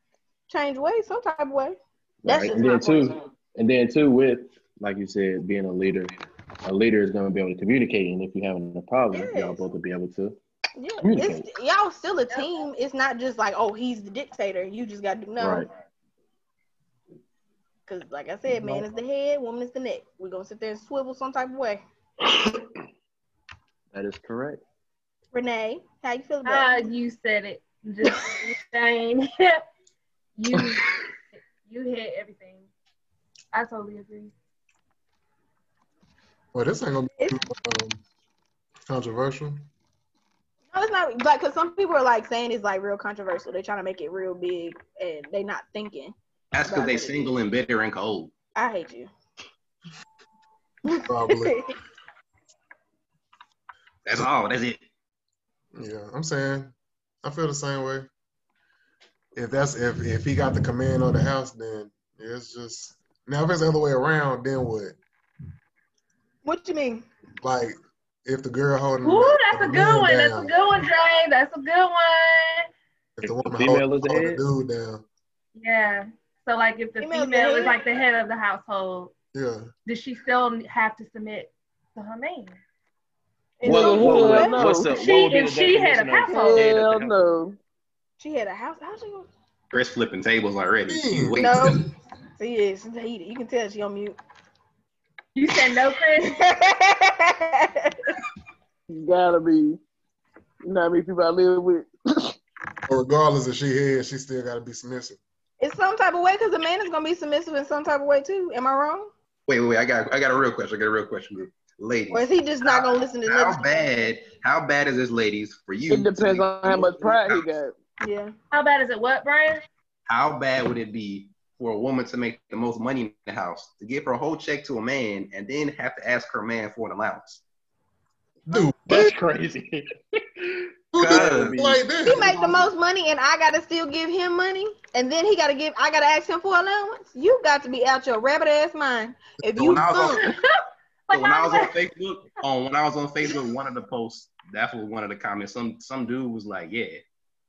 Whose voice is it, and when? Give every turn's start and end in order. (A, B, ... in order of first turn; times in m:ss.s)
0:00.5-0:03.1 A
0:02.2-0:06.1 B
0:06.6-0:10.4 B
0:09.1-0:09.6 A
0:10.8-0:15.7 A
0:11.0-0:11.5 B
0:15.4-0:15.7 B
0:17.9-0:21.8 A
0:18.5-0:18.8 C
0:22.2-0:22.6 B
0:23.9-0:24.6 B
0:25.3-0:26.7 A
0:26.4-0:29.6 D
0:30.4-0:32.7 D
0:33.5-0:34.3 D
0:36.5-0:38.0 C
0:38.8-0:39.7 C
0:40.7-0:47.3 A
0:46.5-0:48.3 E
0:48.6-0:49.1 A
0:50.8-0:51.7 A
0:51.1-0:51.6 C
0:54.0-0:54.8 E
0:55.7-0:58.1 C
0:59.3-1:05.0 C
1:06.4-1:07.0 A
1:07.4-1:10.5 C
1:09.0-1:12.7 D
1:13.2-1:15.0 C
1:13.2-1:14.4 B
1:15.5-1:19.1 D
1:17.0-1:17.8 A
1:19.3-1:19.7 C
1:19.8-1:22.6 D
1:23.6-1:24.7 A
1:23.6-1:25.0 F
1:23.6-1:27.3 B
1:24.9-1:26.6 D
1:26.3-1:27.6 F
1:28.2-1:29.3 A
1:29.7-1:31.8 E
1:30.8-1:31.7 C
1:31.4-1:31.8 A
1:32.4-1:34.2 A
1:35.3-1:36.4 D
1:36.2-1:38.1 A
1:38.9-1:39.8 F
1:40.6-1:42.4 F
1:42.9-1:45.2 C
1:45.6-1:49.1 A
1:49.5-1:57.5 E
1:52.1-1:53.8 A
1:55.9-1:57.7 F
1:58.0-1:58.3 A
1:58.5-1:59.6 D
2:00.1-2:07.4 E
2:08.4-2:09.1 C
2:08.8-2:12.6 B
2:10.9-2:12.5 C
2:11.0-2:11.5 E
2:12.0-2:20.3 A
2:19.6-2:20.4 E
2:20.1-2:20.5 D
2:21.1-2:21.7 D
2:21.1-2:27.0 E